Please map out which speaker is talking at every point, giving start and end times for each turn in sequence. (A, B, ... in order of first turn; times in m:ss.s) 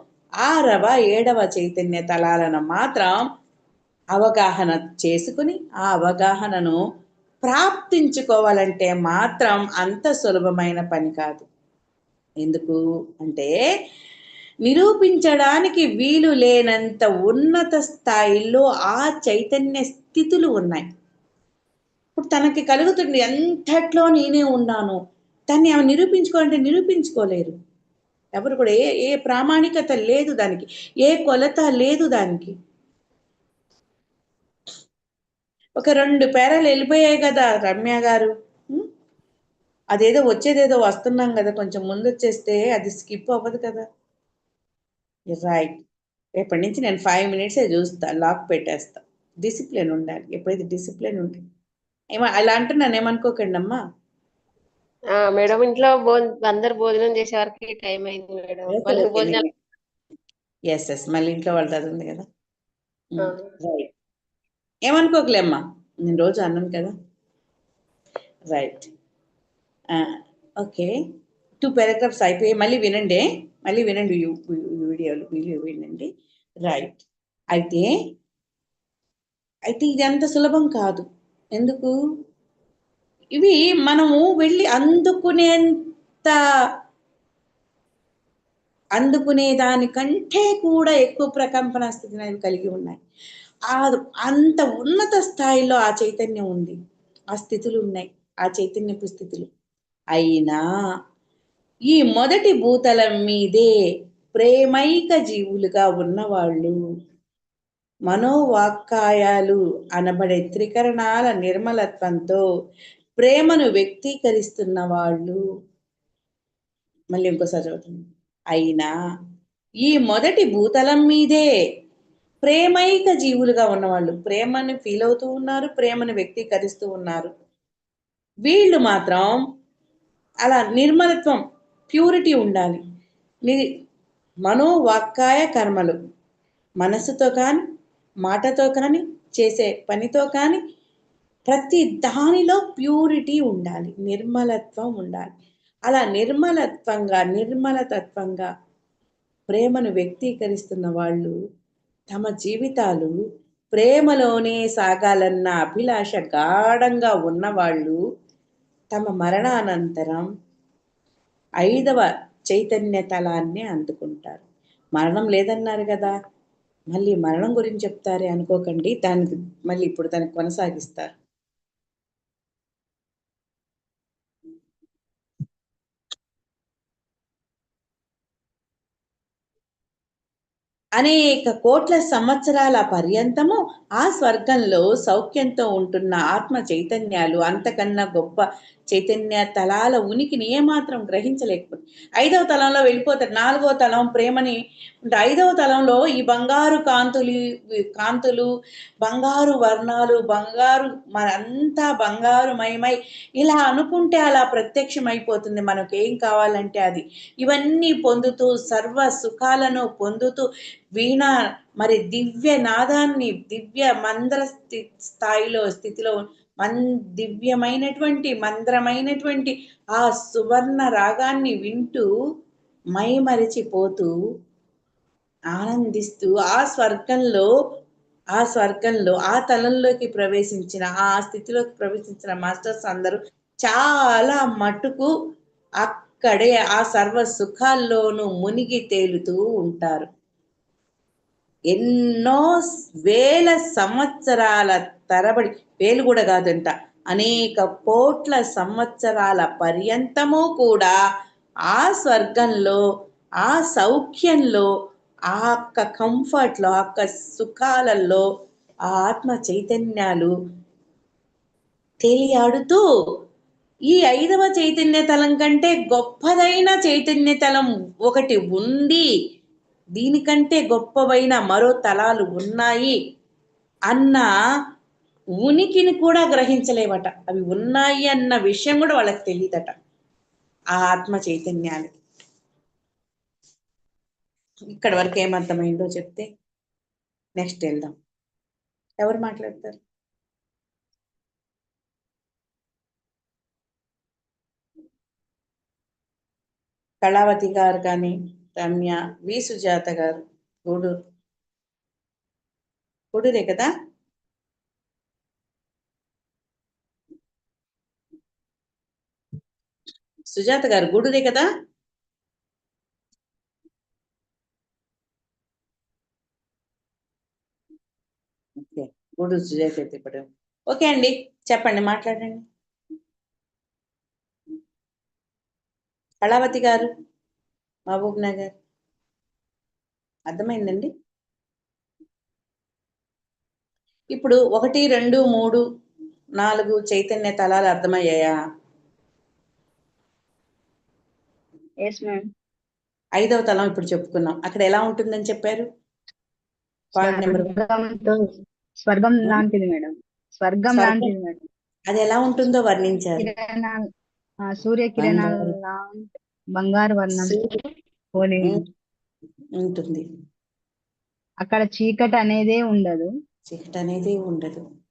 0:00.4-0:03.2 A
0:04.1-0:06.8 A
0:07.5-0:11.4 A
0:12.4-0:13.5 A
0:14.7-0:20.9 A
0:22.2-0:25.0 A
0:25.5-0:27.5 A
0:28.4-0:32.5 A
0:35.8-0:38.9 A
0:39.9-0:43.8 A
0:45.3-0:45.8 A
0:46.4-0:51.4 A
0:52.2-0:53.8 A
0:55.1-0:59.4 B
0:58.7-0:59.5 A
1:00.7-1:02.2 A
1:03.2-1:03.9 A
1:03.2-1:03.5 B
1:04.9-1:06.9 A
1:08.5-1:08.9 A
1:10.6-1:10.9 A
1:11.6-1:16.1 A
1:16.7-1:17.0 A
1:17.6-1:17.9 A
1:19.7-1:21.0 A
1:21.6-1:21.9 A
1:23.4-1:26.4 A
1:29.0-1:33.0 A
1:33.7-1:36.8 A
1:37.3-1:39.5 A
1:40.2-1:40.6 A
1:41.9-1:43.7 A
1:44.4-1:46.8 A
1:48.1-1:52.4 A
1:53.2-1:55.4 A
1:57.1-1:58.0 A
1:58.5-1:58.9 A
1:59.8-2:01.5 A
2:02.4-2:07.3 A
2:08.5-2:09.4 A
2:10.4-2:11.4 A
2:11.9-2:12.8 A
2:14.4-2:16.0 A
2:16.8-2:17.6 A
2:18.2-2:20.6 A
2:21.5-2:25.3 A
2:25.9-2:28.5 A
2:29.5-2:31.4 A
2:32.1-2:33.2 A
2:33.7-2:38.0 A
2:38.9-2:40.3 A
2:41.6-2:44.4 A
2:45.0-2:46.1 A
2:46.9-2:51.1 A
3:01.0-3:17.4 A
3:18.0-3:18.5 A
3:19.0-3:30.4 A
3:31.0-3:42.0 A
3:43.0-3:44.1 A
3:45.6-3:47.5 A
3:48.4-3:55.1 A
3:55.8-4:00.1 A
4:01.7-4:02.5 A
4:03.1-4:11.0 A
4:11.7-4:12.8 A
4:13.4-4:14.7 A
4:15.3-4:18.3 A
4:18.9-4:20.3 A
4:22.0-4:22.8 A
4:23.9-4:29.0 A
4:30.0-4:33.0 A
4:33.9-4:34.3 A
4:35.4-4:39.7 A
4:40.8-4:42.0 A
4:44.7-4:46.3 A
4:47.4-4:47.9 A
4:49.0-4:49.8 A
4:57.0-5:01.0 A
5:03.1-5:03.7 A
5:10.3-5:11.5 A
5:18.6-5:22.4 A
5:26.2-5:26.9 A
5:27.9-5:28.5 A
5:30.3-5:30.9 A
5:34.2-5:35.6 A
5:36.4-5:38.4 A
5:41.8-5:42.2 C
5:43.2-5:45.7 A
5:47.0-5:47.5 A
5:47.0-5:48.2 C
5:48.9-5:51.4 C
5:50.7-5:51.1 A
5:51.9-5:53.3 A
5:53.2-5:53.8 C
5:54.6-5:57.4 C
5:55.0-5:55.5 A
5:57.2-5:57.6 A
5:58.2-5:58.6 C
5:59.6-6:00.0 A
6:01.4-6:03.1 C
6:03.5-6:04.6 A